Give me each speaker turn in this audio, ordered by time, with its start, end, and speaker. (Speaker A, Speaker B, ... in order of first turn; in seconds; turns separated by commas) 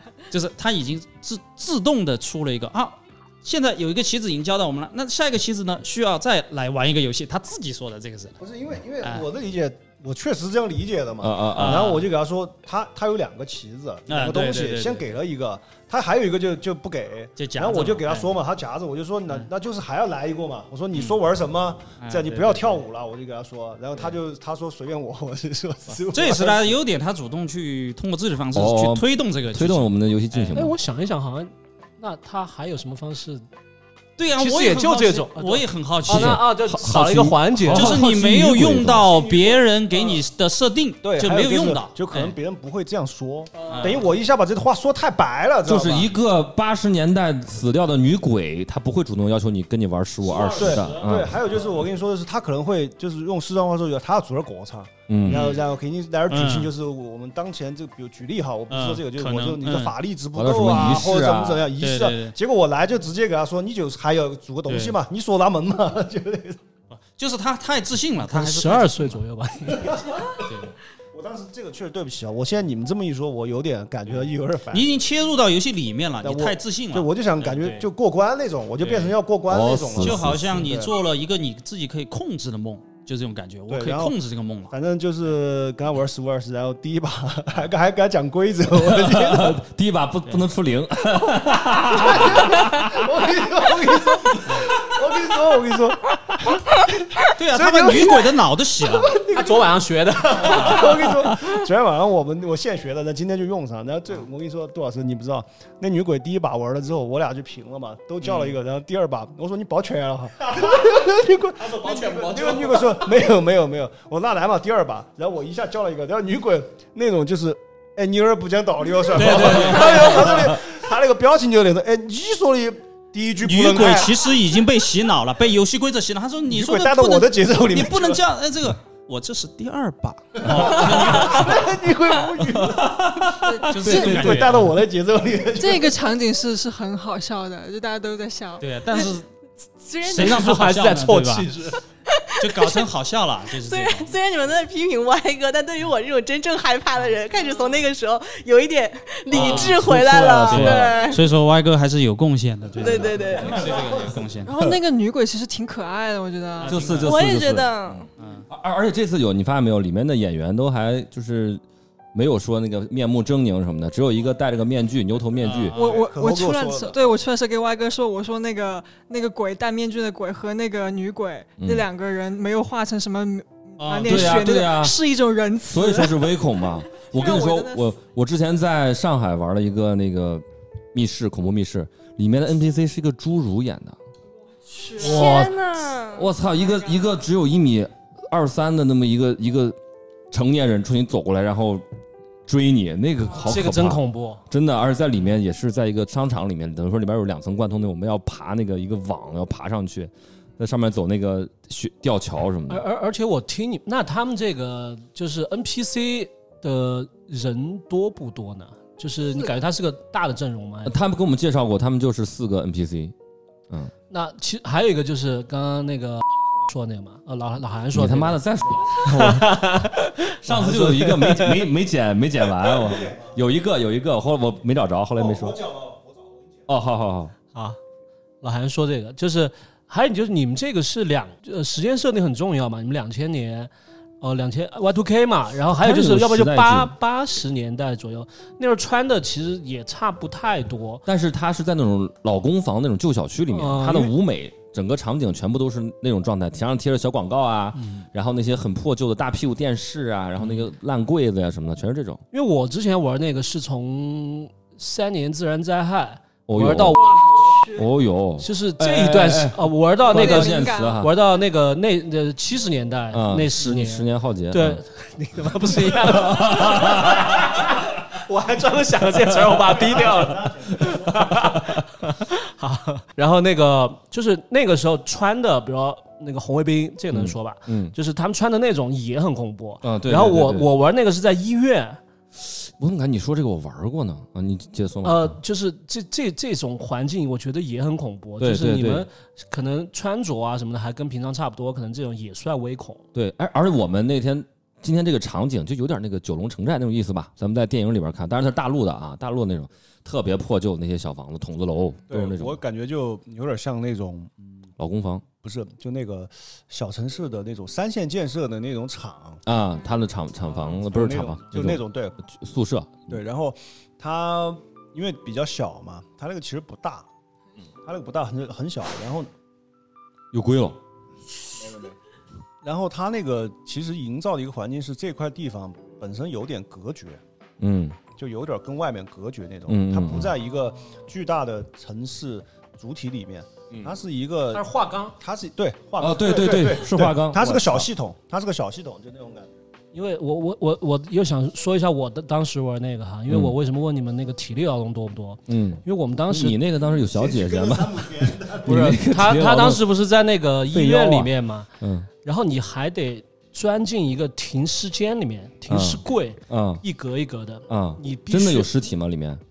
Speaker A: 0.3-8.3, Speaker B: 8.4-26.8, Speaker C: 11.2-11.9, Speaker A: 11.5-12.1, Speaker A: 14.1-15.1, Speaker A: 17.4-18.4, Speaker A: 20.9-21.2, Speaker A: 22.0-22.8, Speaker A: 26.0-30.6, Speaker C: 28.5-30.7, Speaker D: 30.5-33.5, Speaker A: 34.2-36.4, Speaker D: 34.4-38.0, Speaker C: 36.1-39.1, Speaker A: 37.7-42.4, Speaker B: 39.3-39.6, Speaker B: 41.0-46.1, Speaker A: 43.7-44.0, Speaker C: 45.6-51.3, Speaker D: 50.2-51.0, Speaker B: 50.5-66.6, Speaker C: 55.1-55.6, Speaker A: 55.2-55.6, Speaker A: 56.3-56.7, Speaker A: 58.7-60.0, Speaker C: 60.3-61.6, Speaker A: 60.7-61.0, Speaker A: 61.8-62.3, Speaker A: 64.7-65.0, Speaker A: 66.9-69.2, Speaker D: 68.2-70.0, Speaker B: 69.9-70.4, Speaker A: 70.4-70.7, Speaker B: 71.1-75.0, Speaker A: 74.1-77.9, Speaker B: 76.2-80.9, Speaker A: 78.8-79.2, Speaker C: 79.5-80.6, Speaker A: 80.0-84.7, Speaker B: 83.7-84.1, Speaker B: 84.7-89.6, Speaker C: 88.8-93.0, Speaker B: 91.7-124.3, Speaker A: 94.5-94.8, Speaker A: 97.3-99.2, Speaker D: 99.3-101.2, Speaker A: 108.2-108.5, Speaker D: 111.6-112.9, Speaker A: 119.1-120.5, Speaker A: 123.4-131.7, Speaker B: 126.5-128.2, Speaker B: 130.4-136.1, Speaker C: 132.5-134.5, Speaker E: 133.4-133.8, Speaker A: 133.7-134.8, Speaker E: 135.5-138.7, Speaker A: 138.6-139.3, Speaker F: 139.8-140.5, Speaker A: 140.0-141.5, Speaker D: 140.1-141.8, Speaker F: 142.1-142.8, Speaker A: 142.4-144.1, Speaker F: 143.6-151.2, Speaker A: 149.3-149.9, Speaker C: 149.3-151.1, Speaker A: 150.4-154.5, Speaker F: 152.8-153.7, Speaker C: 152.9-153.8, Speaker B: 153.5-154.1, Speaker E: 154.4-156.8, Speaker A: 156.6-157.3, Speaker C: 156.7-161.6, Speaker F: 157.0-158.1, Speaker A: 158.2-158.5, Speaker C: 162.1-165.8, Speaker A: 165.4-166.0, Speaker E: 165.7-176.4, Speaker B: 165.8-167.1, Speaker C: 171.6-171.9, Speaker A: 173.8-174.5, Speaker C: 174.1-175.0, Speaker C: 175.7-184.0, Speaker E: 176.9-178.0, Speaker E: 184.7-185.5, Speaker F: 185.0-186.3, Speaker D: 185.2-185.5, Speaker C: 186.1-189.8, Speaker E: 186.6-187.1, Speaker C: 190.3-191.8, Speaker C: 192.5-202.8, Speaker D: 193.4-194.4, Speaker D: 202.7-211.0, Speaker C: 210.8-213.1, Speaker D: 214.1-221.7, Speaker C: 217.9-225.7, Speaker B: 223.0-223.3, Speaker B: 225.2-226.3, Speaker C: 226.7-227.3, Speaker D: 228.4-241.0, Speaker C: 235.8-236.9, Speaker C: 241.1-252.2, Speaker D: 243.5-244.2, Speaker D: 252.3-257.0, Speaker C: 256.5-257.0, Speaker E: 256.9-257.9, Speaker C: 257.7-261.1, Speaker D: 258.4-282.0, Speaker E: 260.1-261.0, Speaker C: 263.1-264.8, Speaker C: 265.5-267.6, Speaker C: 269.4-270.1, Speaker C: 270.9-271.7, Speaker C: 277.1-277.9, Speaker C: 279.8-280.7, Speaker C: 282.4-285.4, Speaker D: 285.0-293.0, Speaker C: 288.4-289.1, Speaker C: 293.1-302.6, Speaker B: 302.1-304.3, Speaker C: 304.8-305.2, Speaker B: 305.4-309.4, Speaker C: 309.4-313.1, Speaker B: 310.6-312.2, Speaker B: 313.1-317.1, Speaker B: 317.8-319.3, Speaker C: 320.3-320.8, Speaker B: 321.6-321.9, Speaker B: 322.6-327.2, Speaker C: 327.6-328.0, Speaker B: 328.1-339.5, Speaker C: 329.7-330.3, Speaker D: 334.5-335.1, Speaker C: 336.0-337.9, Speaker D: 339.9-346.6, Speaker C: 343.3-343.5, Speaker C: 345.5-349.9, Speaker B: 347.1-348.8, Speaker D: 348.6-351.7, Speaker C: 350.7-352.1, Speaker D: 352.2-358.7, Speaker C: 355.7-356.8, Speaker C: 357.7-359.4